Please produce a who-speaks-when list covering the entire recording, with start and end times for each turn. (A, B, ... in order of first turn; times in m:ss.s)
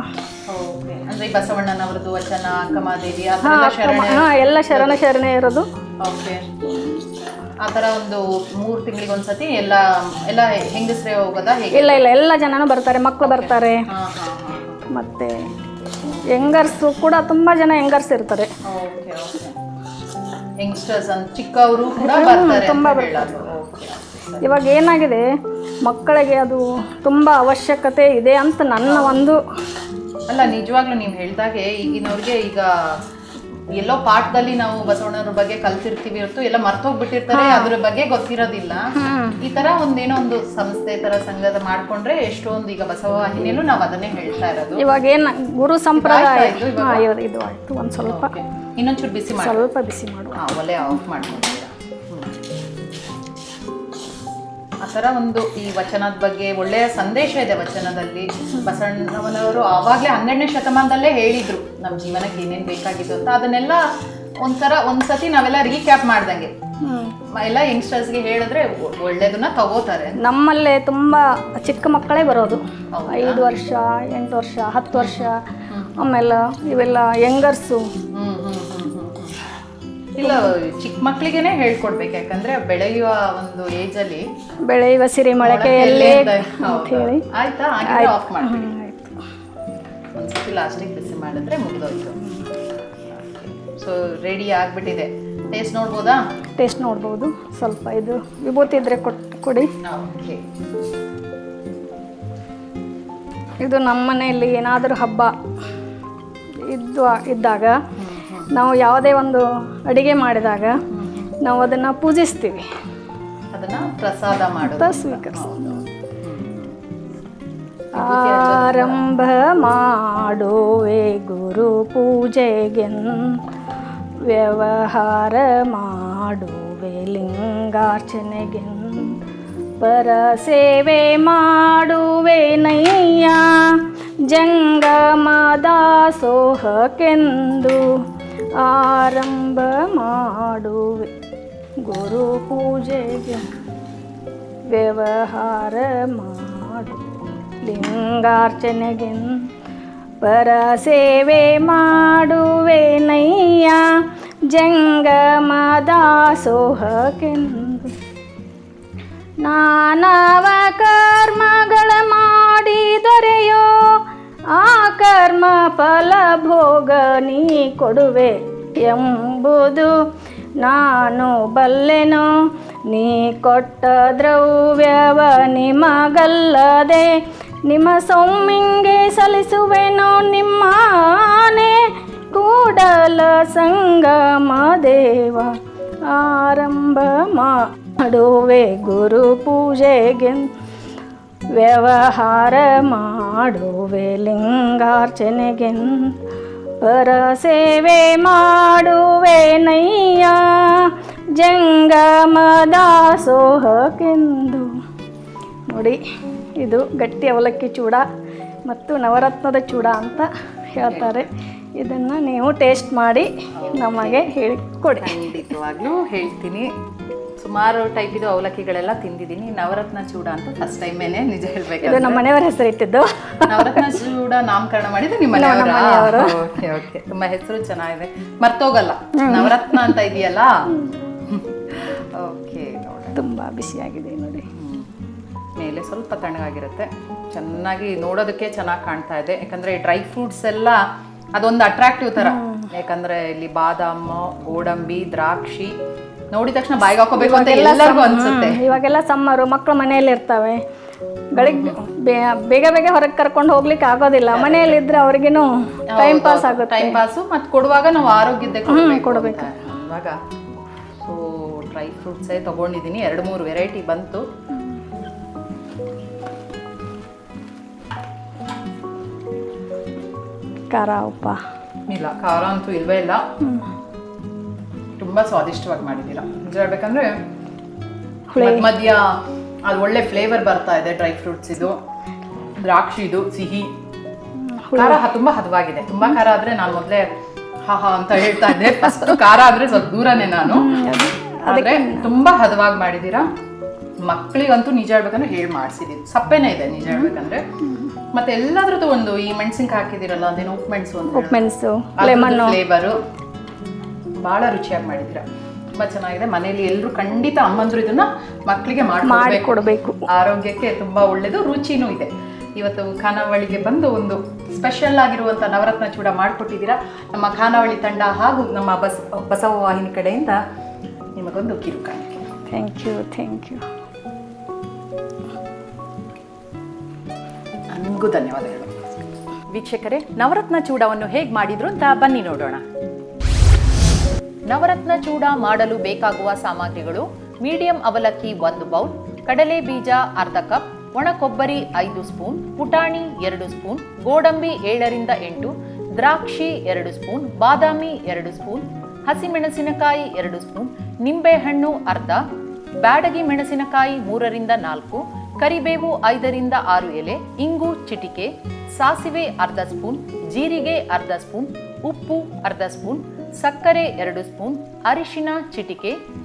0:00.5-0:05.0 A
0:03.4-0:05.7 B
0:06.0-0:06.5 A
0:06.7-0:07.0 B
0:07.6-0:12.0 A
0:11.7-0:13.9 B
0:13.2-0:14.8 A
0:14.9-0:15.5 B
0:16.0-0:16.8 A
0:16.3-0:18.5 B
0:18.7-0:19.6 A
0:20.6-0:24.4 A
0:22.0-0:23.5 B
0:24.4-0:25.2 B
0:25.8-0:29.4 B
0:28.8-0:29.2 A
0:30.3-0:33.0 A
0:33.8-0:44.8 A
0:37.3-0:37.8 B
0:39.0-0:39.4 B
0:44.8-0:48.3 B
0:46.0-0:47.0 A
0:48.1-0:49.7 A
0:49.4-0:50.4 B
0:50.4-0:52.4 A
0:54.8-1:03.9 A
1:04.4-1:06.5 A
1:06.8-1:07.1 B
1:07.3-1:10.2 A
1:10.2-1:15.4 B
1:12.9-1:13.4 A
1:14.9-1:16.0 A
1:16.0-1:17.9 B
1:18.1-1:19.4 A
1:20.2-1:24.3 A
1:24.7-1:27.2 B
1:25.4-1:28.7 A
1:27.8-1:29.2 B
1:30.2-1:32.2 A
1:33.0-1:36.2 A
1:36.6-1:39.7 B
1:39.8-1:40.4 A
1:43.6-1:45.3 B
1:46.7-1:47.8 B
1:48.0-1:48.5 A
1:48.5-1:50.8 B
1:50.9-1:51.3 A
1:51.4-1:52.7 B
1:53.5-1:56.7 A
1:54.6-1:55.8 B
1:57.9-1:59.1 A
1:58.0-2:03.4 B
2:04.2-2:09.2 B
2:09.8-2:18.0 B
2:18.6-2:21.1 B
2:21.8-2:23.5 B
2:24.7-2:27.1 B
2:27.6-2:29.5 B
2:30.2-2:38.0 B
2:39.4-2:44.0 B
2:44.5-2:49.9 B
2:50.6-2:52.3 B
2:52.9-3:05.5 B
3:06.1-3:10.5 B
3:11.6-3:16.2 B
3:16.8-3:24.7 B
3:25.7-3:26.0 B
3:26.6-3:28.0 B
3:28.7-3:35.2 B
3:30.8-3:31.3 A
3:33.5-3:34.3 A
3:35.0-3:36.7 A
3:37.4-3:42.2 A
3:41.8-3:44.0 B
3:43.5-3:53.2 A
3:45.3-3:46.4 B
3:49.2-3:50.0 B
3:53.2-3:54.5 B
3:54.5-3:54.9 A
3:55.6-4:00.8 A
4:01.4-4:05.8 A
4:02.2-4:02.7 B
4:06.3-4:08.8 A
4:07.2-4:10.6 B
4:11.4-4:17.0 B
4:11.4-4:11.8 A
4:14.3-4:14.8 A
4:15.9-4:20.2 A
4:18.7-4:19.5 B
4:21.0-4:24.2 A
4:30.7-4:31.4 B
4:31.9-4:33.2 A
4:35.0-4:37.1 A
4:38.3-4:38.7 B
4:38.4-4:41.8 A
4:42.6-4:43.7 A
4:44.4-4:45.1 B
4:44.7-4:47.1 A
4:47.7-4:50.8 A
4:50.5-4:52.1 B
4:51.5-4:53.3 A
4:54.0-4:57.4 A
4:57.6-4:57.9 B
4:58.1-5:03.0 A
5:01.1-5:02.6 B
5:04.2-5:05.3 A
5:05.8-5:20.4 A
5:09.0-5:10.0 B
5:21.2-5:22.3 A
5:22.5-5:23.6 B
5:27.7-5:28.9 A
5:29.5-5:32.6 A
5:34.5-5:52.2 A
5:52.8-6:06.0 A